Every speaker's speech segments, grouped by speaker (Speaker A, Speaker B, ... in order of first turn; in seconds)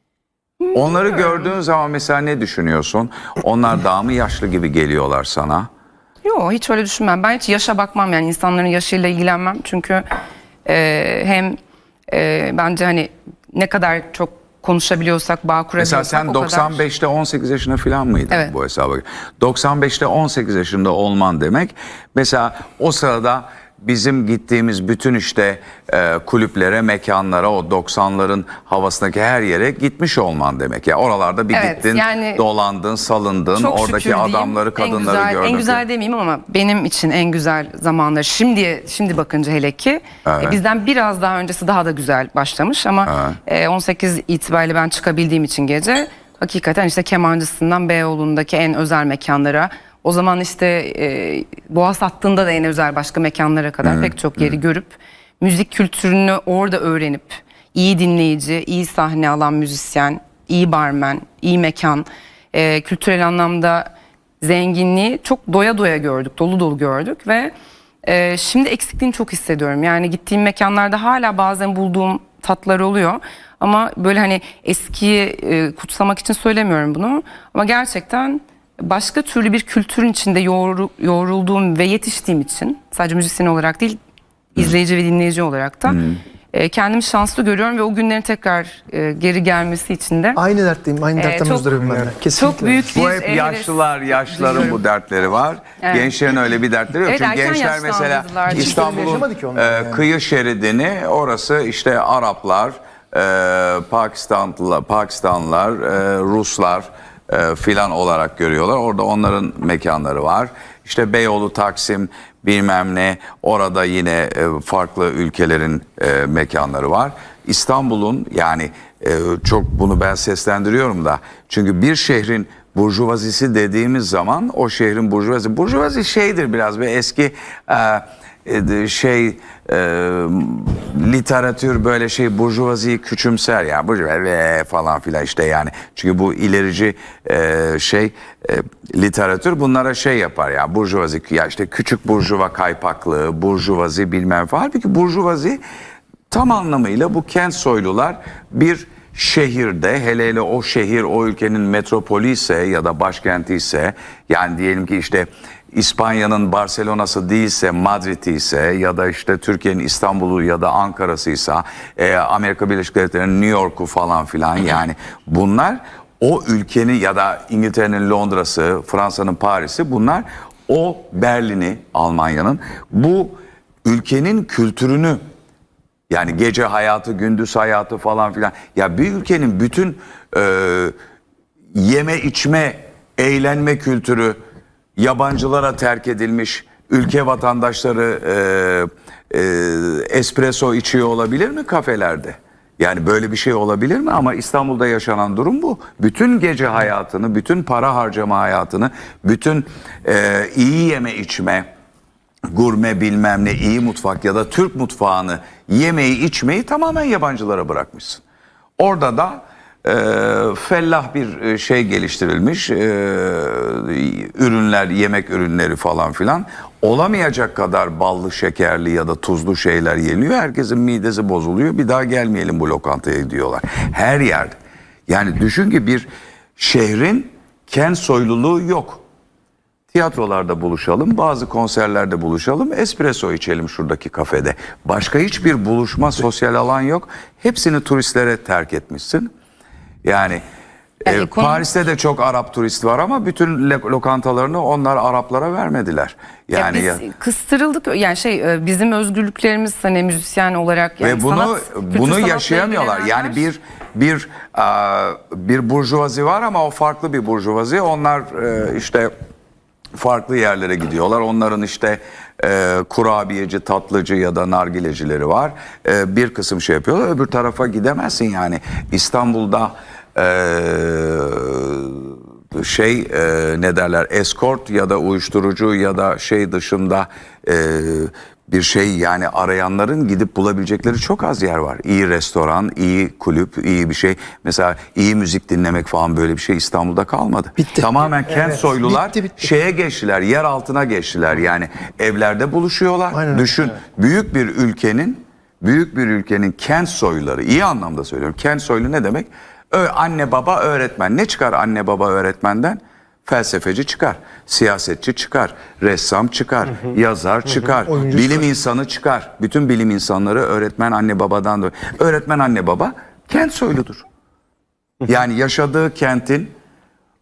Speaker A: 0.6-1.1, 6.2-10.1, 10.7-11.6, 12.1-16.8, 31.5-32.4, 33.5-63.9, 64.4-67.5, 68.0-84.0, 84.6-86.0, 86.5-90.4, 91.2-94.8, 95.8-96.1, 97.0-99.2, 241.1-241.7, 246.5-253.4
Speaker B: 0.7-5.7, 15.8-35.8, 40.3-40.6, 43.1-43.4, 53.8-54.5, 85.9-86.2, 92.9-145.6, 146.3-175.2, 176.1-180.9, 181.7-184.4, 185.0-201.7, 202.5-208.2, 208.8-224.6, 225.1-229.0, 229.9-239.3, 240.0-240.4, 241.1-247.0, 251.0-259.1, 259.9-314.1, 315.1-316.5
Speaker C: 90.3-92.9, 98.5-100.1, 287.6-289.4, 293.1-293.7, 307.9-308.4